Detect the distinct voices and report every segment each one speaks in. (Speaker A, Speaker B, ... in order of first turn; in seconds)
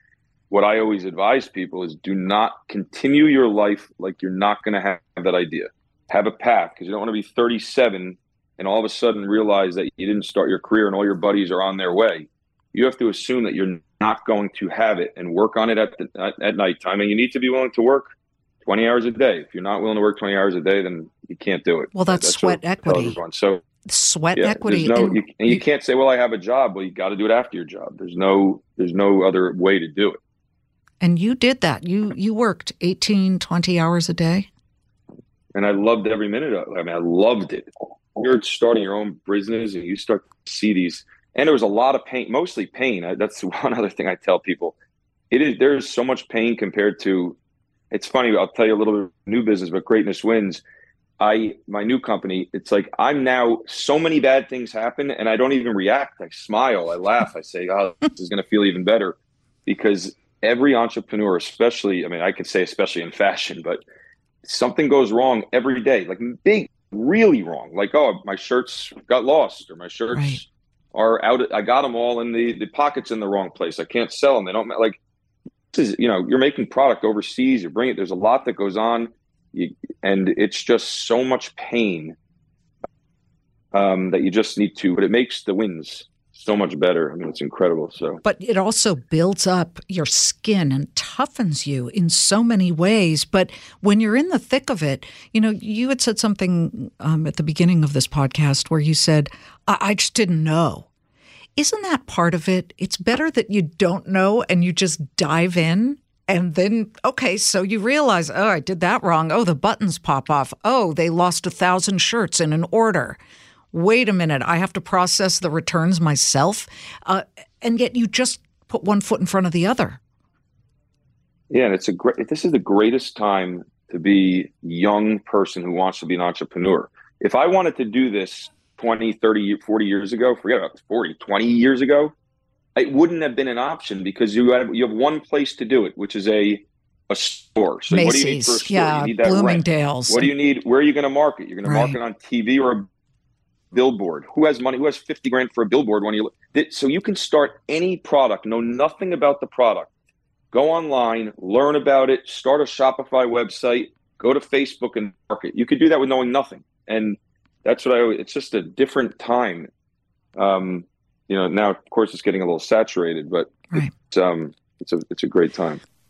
Speaker A: 0.5-18.1, 18.6-23.6, 24.3-30.2, 35.5-44.7, 45.3-47.4, 47.9-50.6, 51.2-63.8, 64.4-75.0, 75.7-82.2, 83.7-88.2, 121.5-132.1, 132.8-142.9, 143.7-149.9, 150.5-159.7, 160.3-165.8
Speaker B: 21.9-23.2, 23.9-25.6, 31.0-34.5, 70.1-70.4, 88.2-100.9, 101.5-113.2, 113.7-120.0, 137.9-140.3, 141.6-142.0